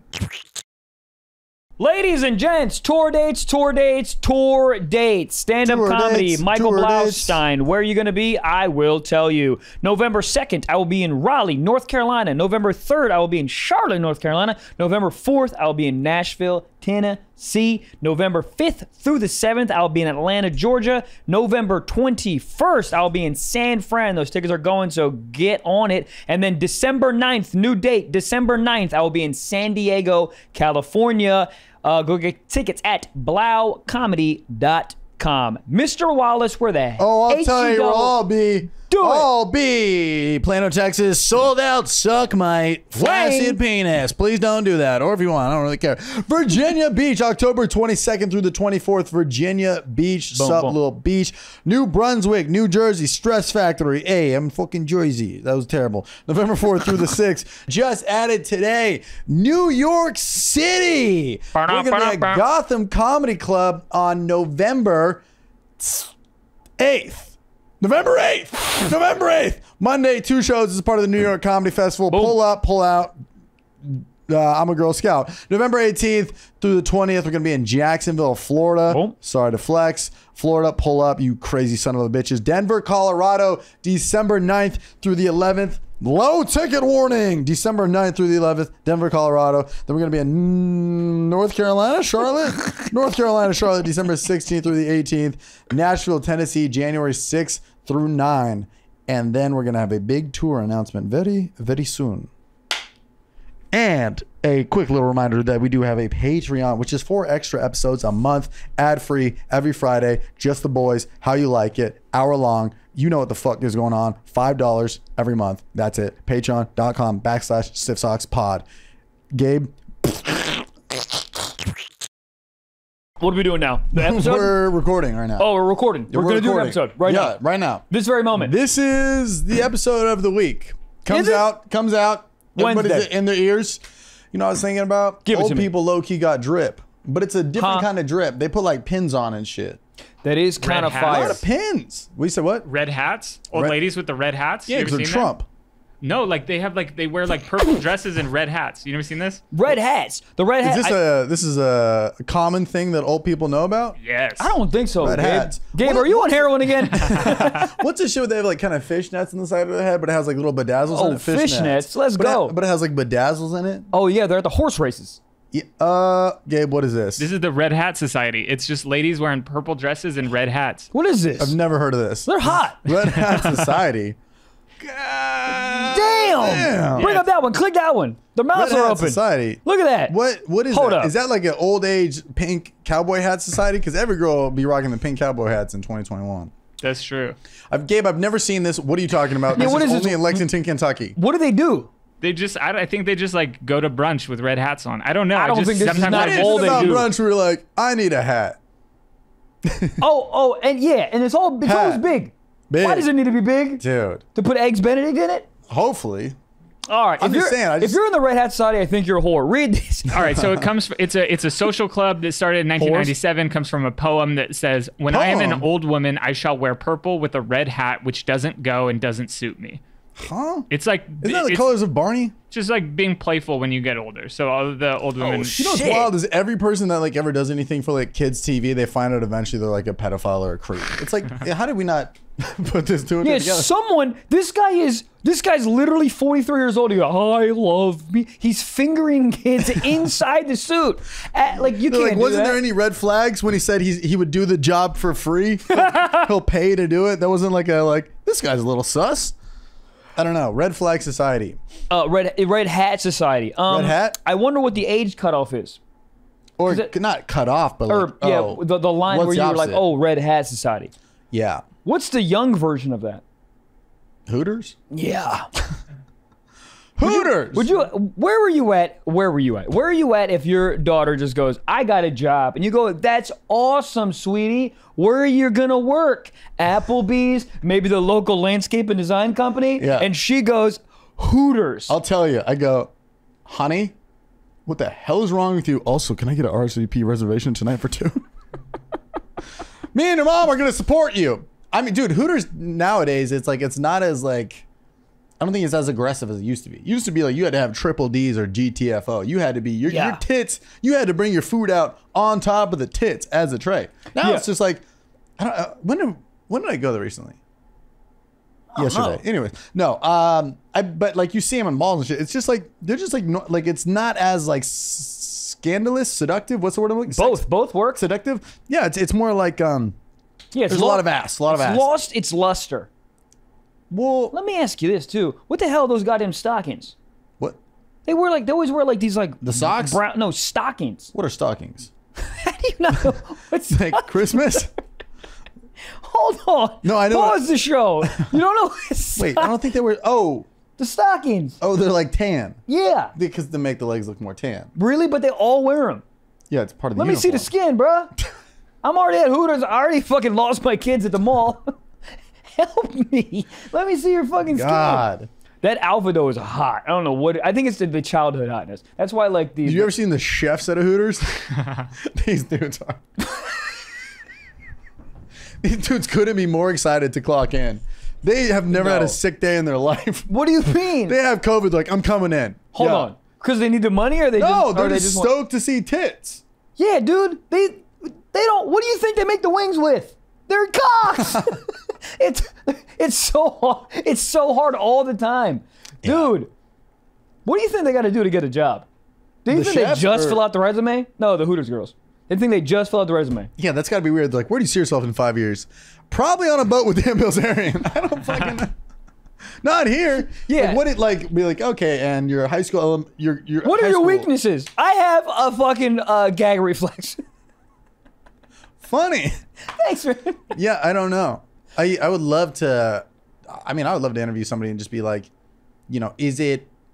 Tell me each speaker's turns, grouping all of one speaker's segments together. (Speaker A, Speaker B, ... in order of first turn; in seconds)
Speaker A: 1.8-38.2, 38.9-39.3, 42.9-43.6, 50.3-50.8, 61.5-62.4, 72.1-72.4, 78.9-79.1, 123.2-124.6, 125.4-127.4, 127.9-128.5, 131.1-131.4, 132.6-133.1, 135.2-135.7, 137.6-137.9, 140.2-141.4, 149.5-151.0, 154.4-157.7, 160.9-162.6, 163.9-165.2, 170.9-171.6, 172.2-172.9, 175.8-180.1, 180.7-181.1, 189.5-190.4, 191.2-191.9, 195.3-197.1, 200.0-203.8, 204.3-205.5, 206.9-210.3, 212.8-213.1, 225.6-226.1, 233.2-242.6, 245.7-246.3, 251.9-255.8, 256.7-256.9, 257.9-260.9, 261.8-263.2, 264.9-265.5, 267.0-281.9, 299.9-300.2, 304.2-304.4, 308.7-309.2, 317.1-318.0, 320.5-322.9, 324.3-326.9, 328.1-331.1, 332.2-334.6, 335.9-339.5, 340.8-341.6, 342.7-343.1, 344.7-346.0, 346.9-348.1, 348.8-351.7, 352.5-355.1, 355.6-359.9, 368.7-369.2, 370.3-371.1, 372.7-375.3, 376.8-386.5, 387.4-388.9, 389.4-393.5, 400.4-400.8, 403.6-407.2, 409.7-410.4
Speaker B: 5.6-7.4, 37.0-65.2, 65.8-66.1, 66.8-73.2, 73.8-102.3, 103.7-118.6, 119.3-120.6, 123.9-125.5, 126.1-133.8, 134.3-139.8, 141.0-142.7, 144.7-145.4, 150.6-154.0, 155.0-163.9, 165.5-167.2, 171.4-174.2, 174.8-177.1, 178.5-186.5, 187.7-191.2, 195.8-198.6, 199.7-200.0, 201.6-202.1, 202.7-203.1, 203.8-204.2, 205.7-206.4, 207.2-208.0, 215.1-215.7, 220.2-220.7, 221.2-222.3, 225.2-233.7, 241.8-249.3, 250.2-251.6, 253.7-254.2, 256.6-259.8, 261.3-261.6, 264.3-264.8, 267.0-267.7, 279.8-280.1, 281.9-282.9, 283.4-283.9, 284.6-288.2, 289.9-294.6, 295.4-304.8, 305.4-307.4, 308.7-319.9, 320.7-321.9, 323.9-324.3, 329.4-330.0, 331.1-331.9, 333.7-334.7, 336.8-337.4, 338.1-338.3, 339.2-340.5, 341.6-342.6, 343.1-344.7, 346.5-347.5, 354.5-355.3, 359.6-363.0, 365.6-373.1, 374.4-376.4, 381.3-381.5, 386.0-386.3, 389.5-390.4, 393.6-398.7, 399.6-404.3, 408.8-409.4, 410.5-415.3, 415.9-416.7
Speaker C: 140.6-141.4, 142.6-145.3, 146.0-149.4, 154.0-154.6, 167.2-170.9, 173.1-173.7, 176.9-177.3, 186.8-187.4, 192.2-197.1, 210.1-219.8, 220.7-221.7, 222.5-225.9